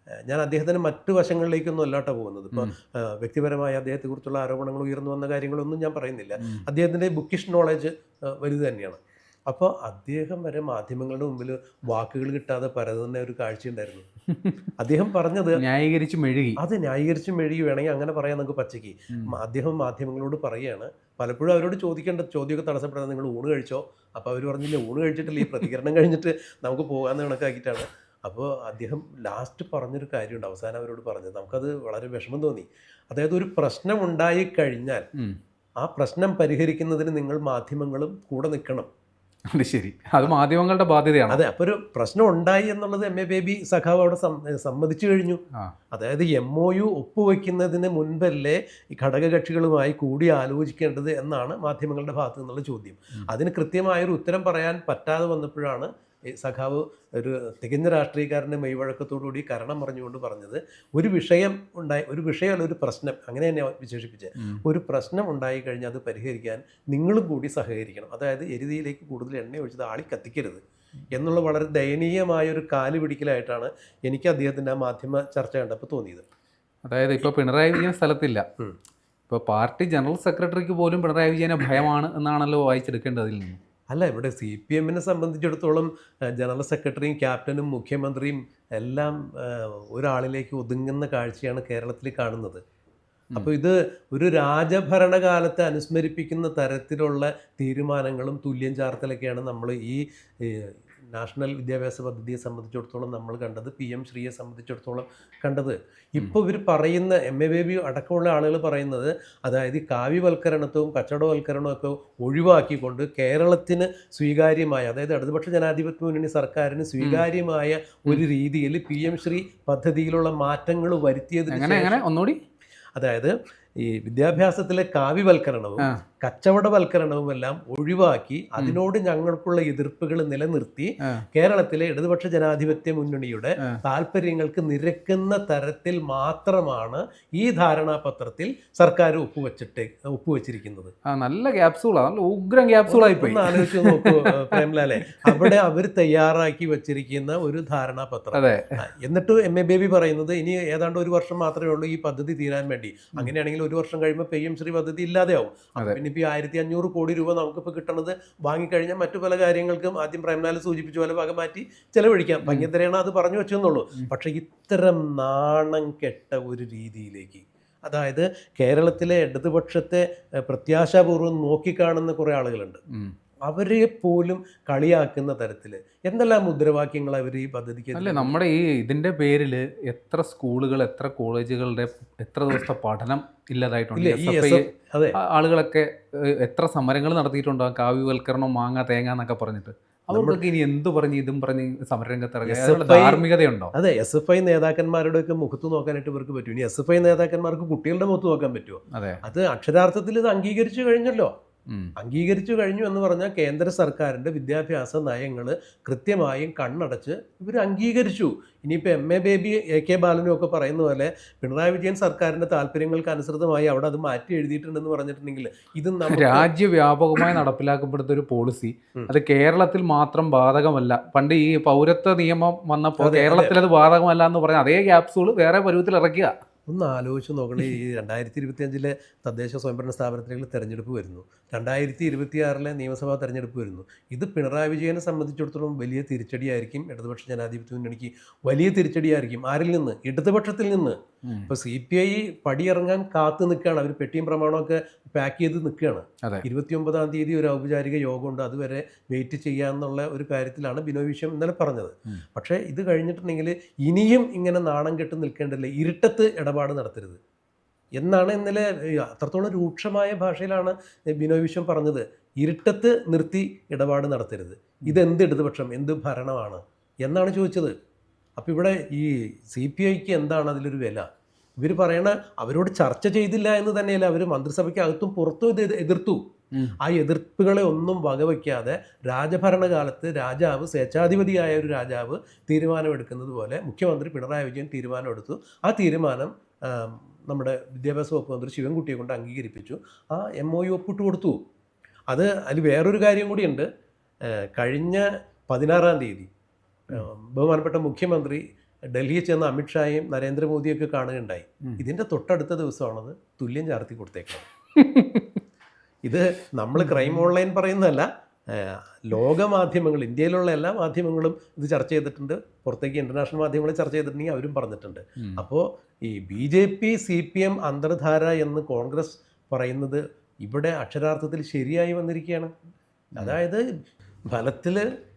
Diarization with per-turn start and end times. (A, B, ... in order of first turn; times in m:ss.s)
0:00.3-0:14.1 A
0:14.8-0:15.6 A
0:15.6-0:16.6 B
0:16.6-0:35.0 A
0:35.8-0:38.9 A
0:39.5-0:41.4 B
0:41.3-0:45.4 A
0:45.9-1:10.6 A
1:11.1-1:16.2 A
1:16.9-1:18.4 B
1:19.3-1:23.6 B
1:23.9-1:32.6 A
1:33.4-2:02.0 A
2:01.5-2:02.4 B
2:03.0-2:20.9 A
2:21.1-2:25.5 B
2:22.9-2:52.8 A
2:28.3-2:28.8 B
2:53.5-2:58.3 A
2:58.0-3:13.7 B
3:04.0-3:05.2 A
3:10.1-3:10.4 A
3:12.5-3:21.3 A
3:18.9-3:19.2 B
3:22.0-3:36.5 A
3:36.1-3:46.3 B
3:43.0-3:43.6 A
3:46.7-4:01.0 A
4:01.5-4:17.2 A
4:18.0-4:27.7 A
4:28.4-4:31.1 A
4:31.6-4:36.2 A
4:36.8-4:51.4 A
4:52.1-4:53.7 A
4:54.2-4:56.3 A
4:56.9-5:04.5 A
5:04.8-5:05.4 B
5:06.0-5:22.5 A
5:06.8-5:07.3 B
5:23.2-5:23.6 A
5:24.3-5:24.8 A